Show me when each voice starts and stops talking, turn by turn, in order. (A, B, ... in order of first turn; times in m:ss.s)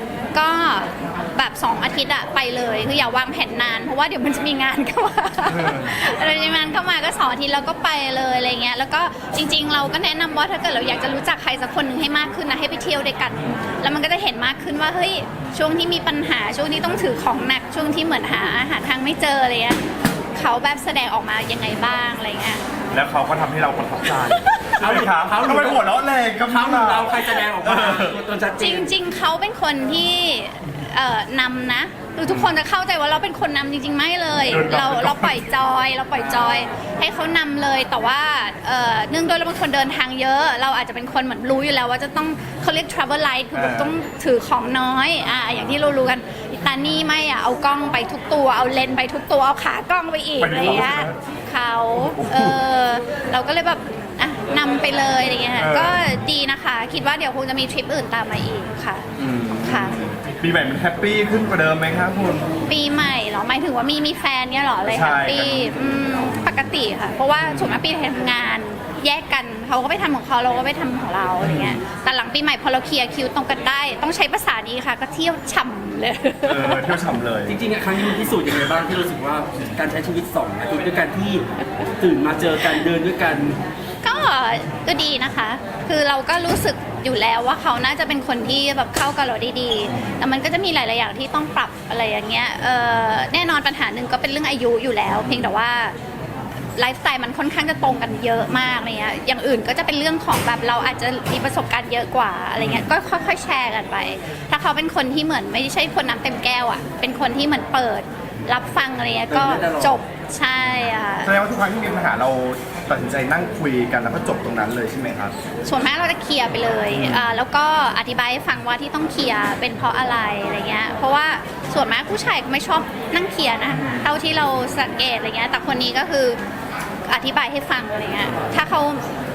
0:00.3-0:22.6 A
0:05.6-0:05.9 B
0:22.9-0:28.2 B
0:24.3-0:24.8 A
0:24.8-0:25.9 C
0:26.4-0:28.9 C
0:28.6-0:59.1 A
0:32.2-0:32.5 C
0:34.5-0:35.4 B
0:43.5-0:44.0 B
0:50.4-0:51.2 B
0:52.1-0:52.6 B
0:55.6-0:56.0 B
0:59.2-1:02.5 B
0:59.6-1:00.0 A
1:02.7-1:17.0 A
1:04.9-1:06.0 B
1:07.5-1:07.8 B
1:11.5-1:11.8 B
1:16.5-1:17.6 B
1:17.4-1:21.4 C
1:22.0-1:23.6 C
1:24.0-1:36.0 A
1:36.8-1:51.3 A
1:49.3-1:50.0 C
1:51.2-1:55.3 B
1:55.6-2:06.4 A
1:57.0-1:57.2 B
2:07.1-2:09.0 A